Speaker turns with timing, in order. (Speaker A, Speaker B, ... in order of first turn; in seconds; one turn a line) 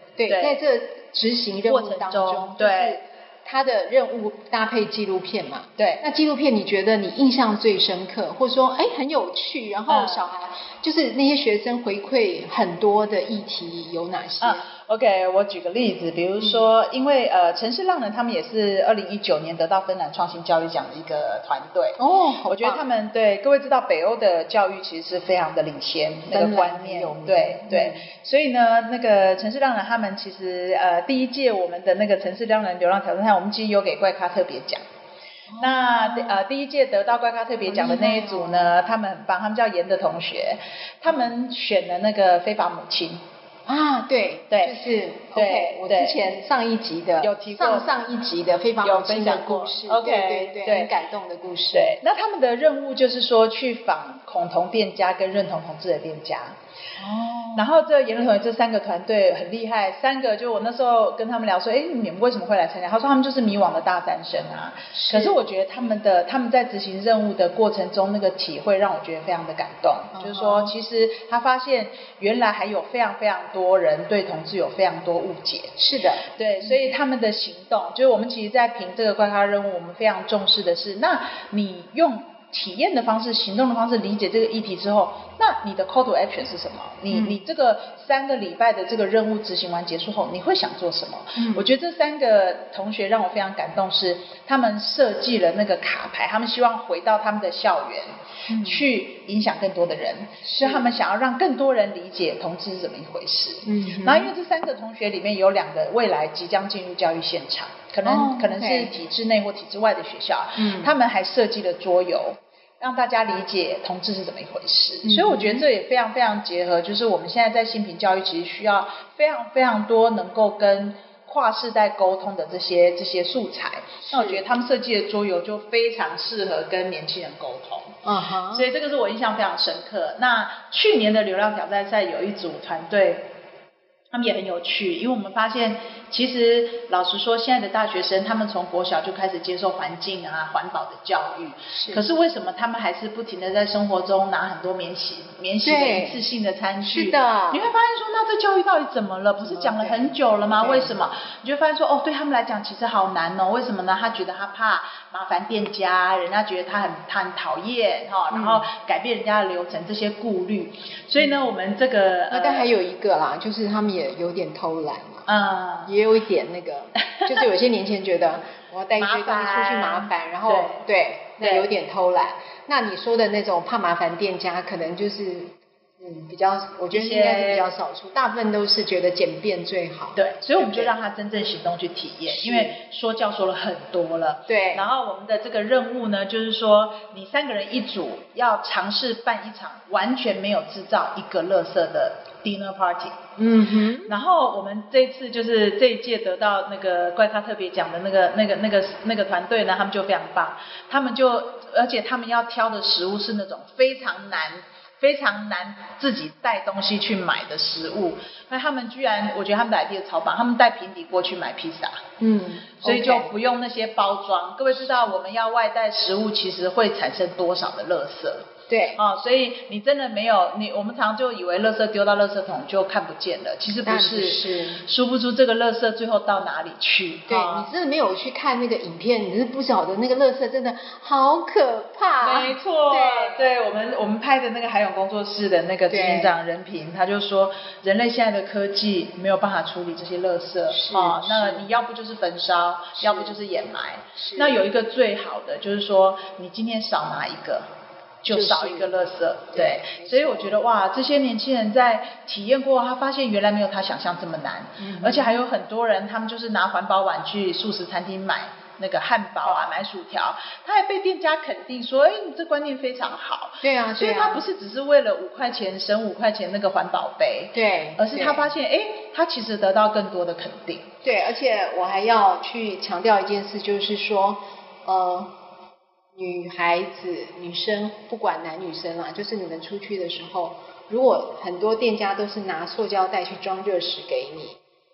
Speaker A: 0.2-14.7
Speaker B: 0.3-0.6
Speaker B: 1.6-3.0
Speaker B: 5.8-6.0
Speaker B: 9.9-10.3
Speaker B: 14.4-34.8
Speaker A: 16.4-16.7
Speaker A: 22.0-22.9
Speaker A: 26.3-28.0
Speaker A: 35.5-36.4
Speaker B: 35.6-43.2
Speaker A: 37.6-38.8
Speaker A: 43.6-52.0
Speaker B: 44.5-44.8
Speaker B: 45.3-46.2
Speaker B: 47.2-47.9
Speaker B: 48.8-50.9
Speaker B: 51.7-56.6
Speaker A: 57.0-57.7
Speaker B: 57.5-75.8
Speaker A: 64.9-65.4
Speaker A: 70.1-70.7
Speaker A: 75.8-76.8
Speaker B: 76.3-128.0
Speaker A: 87.1-87.4
Speaker A: 91.4-91.7
Speaker A: 98.5-98.8
Speaker A: 100.4-100.9
Speaker A: 103.6-104.3
Speaker A: 108.0-108.9
Speaker A: 110.6-110.9
Speaker A: 115.0-115.7
Speaker A: 124.0-124.4
Speaker A: 128.0-128.7
Speaker B: 128.5-133.3
Speaker B: 134.1-162.7
Speaker A: 141.7-142.1
Speaker A: 145.6-146.2
Speaker A: 146.8-147.7
Speaker A: 149.4-150.9
Speaker A: 158.3-158.7
Speaker A: 161.2-161.5
Speaker A: 162.3-165.3
Speaker B: 165.2-165.9
Speaker A: 165.8-180.9
Speaker B: 168.9-170.8
Speaker B: 171.4-171.7
Speaker B: 176.9-177.7
Speaker B: 180.1-193.2
Speaker A: 182.3-182.8
Speaker A: 184.5-184.9
Speaker A: 193.4-194.1
Speaker B: 194.1-212.0
Speaker A: 212.2-213.3
Speaker B: 212.8-227.7
Speaker A: 218.7-219.0
Speaker A: 223.8-224.8
Speaker A: 227.3-233.5
Speaker B: 232.2-247.7
Speaker A: 235.9-236.4
Speaker A: 240.7-241.7
Speaker A: 243.0-243.4
Speaker A: 244.2-244.6
Speaker B: 248.2-270.9
Speaker A: 248.3-249.0
Speaker A: 249.5-250.6
Speaker A: 254.8-255.4
Speaker A: 263.6-264.4
Speaker A: 267.5-268.5
Speaker A: 271.0-275.3
Speaker A: 276.1-284.6